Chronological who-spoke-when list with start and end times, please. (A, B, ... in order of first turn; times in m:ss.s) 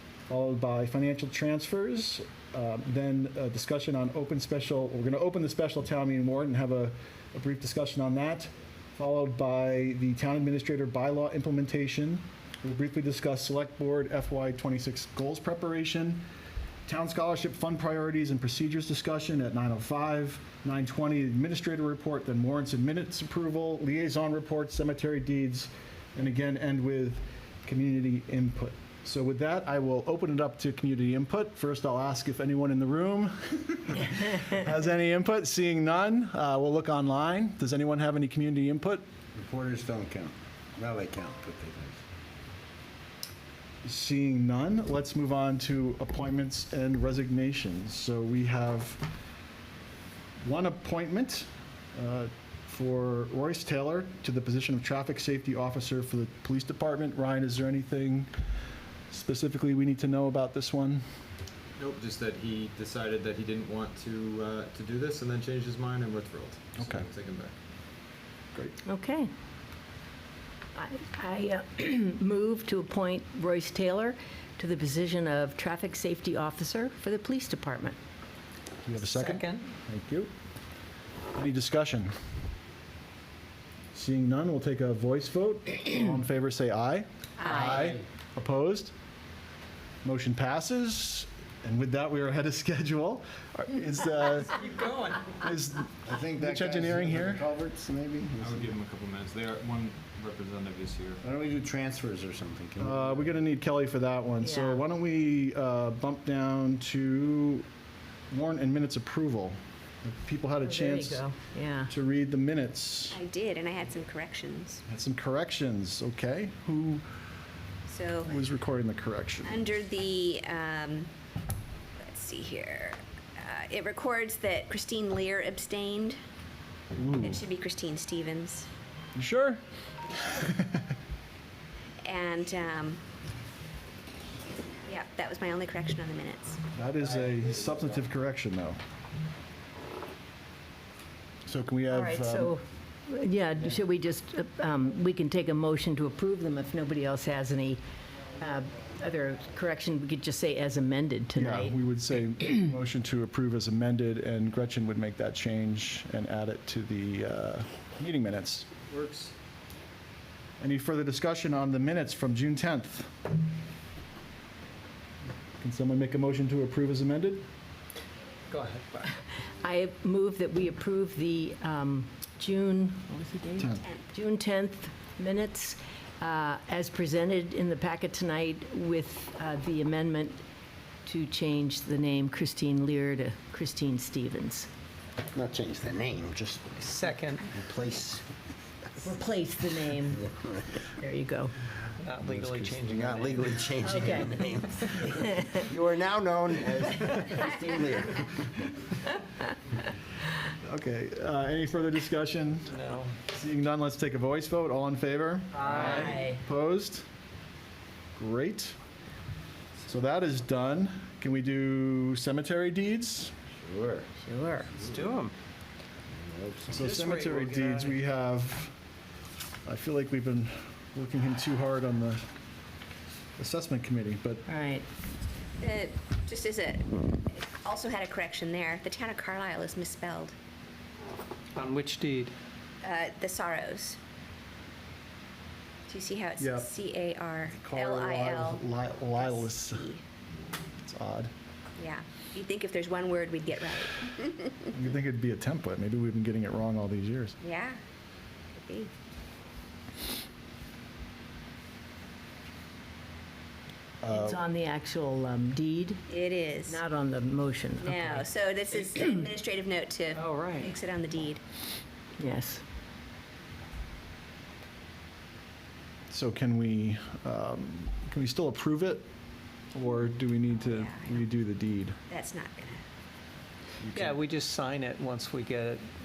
0:00.3-0:16.2 A
0:16.8-0:39.0 A
0:39.4-0:42.0 B
0:43.8-0:49.0 A
0:50.4-0:58.3 A
0:59.1-1:01.0 A
1:01.8-1:07.5 C
1:06.8-1:07.0 A
1:08.8-1:09.3 D
1:10.7-1:18.0 D
1:18.8-1:20.3 A
1:19.2-1:19.6 E
1:21.3-1:22.1 A
1:23.9-1:28.9 A
1:27.4-1:28.0 D
1:30.0-1:34.6 A
1:34.7-1:35.3 E
1:35.3-1:37.4 A
1:36.0-1:38.7 B
1:38.4-1:41.2 C
1:41.2-1:43.3 B
1:42.8-1:47.6 A
1:44.4-1:44.8 D
1:48.3-1:51.2 A
1:50.6-1:51.9 D
1:51.9-1:53.2 A
1:53.1-1:54.8 F
1:54.9-1:57.0 A
1:57.9-1:58.4 F
1:58.2-1:59.6 A
1:59.4-2:01.1 F
2:02.0-2:06.2 F
2:06.9-2:07.4 A
2:07.2-2:08.7 F
2:09.1-2:09.6 A
2:10.2-2:10.8 A
2:12.0-2:13.0 F
2:14.8-2:16.6 F
2:16.7-2:18.8 A
2:21.4-2:22.5 A
2:21.9-2:27.8 D
2:28.4-2:31.8 D
2:31.4-2:38.7 A
2:38.9-2:39.3 C
2:40.6-2:43.1 A
2:45.6-2:47.4 A
2:48.5-2:49.0 C
2:49.6-3:00.4 D
2:53.6-2:53.8 A
3:01.0-3:04.7 D
3:05.3-3:06.8 B
3:06.8-3:07.5 E
3:07.5-3:08.2 B
3:09.0-3:10.3 D
3:10.8-3:11.5 D
3:12.0-3:13.7 E
3:12.2-3:18.4 B
3:13.8-3:15.6 D
3:20.6-3:22.7 A
3:22.7-3:23.1 E
3:23.3-3:27.0 A
3:25.6-3:26.4 D
3:25.7-3:26.1 E
3:28.2-3:28.8 A
3:29.8-3:33.3 A
3:33.6-3:34.1 B
3:34.2-3:34.7 D
3:34.8-3:35.0 B
3:34.8-3:35.3 E
3:36.1-3:36.9 B
3:36.7-3:38.7 A
3:36.7-3:38.0 E
3:39.6-3:42.2 A
3:43.4-3:44.4 A
3:44.5-3:44.8 D
3:45.6-3:50.3 F
3:51.6-3:52.3 E
3:52.8-3:54.0 F
3:55.9-3:58.6 F
3:56.4-3:56.7 A
3:57.6-3:59.9 A
3:59.1-4:00.0 F
4:00.8-4:01.3 A
4:01.8-4:04.6 F
4:04.7-4:07.4 A
4:07.4-4:07.8 F
4:08.6-4:08.9 F
4:14.0-4:14.4 A
4:14.0-4:16.0 D
4:16.1-4:16.8 F
4:16.7-4:18.3 D
4:17.8-4:21.4 F
4:20.1-4:20.7 E
4:22.2-4:22.6 D
4:26.1-4:29.0 A
4:29.7-4:32.0 A
4:30.6-4:31.2 F
4:32.1-4:32.8 F
4:33.8-4:35.8 E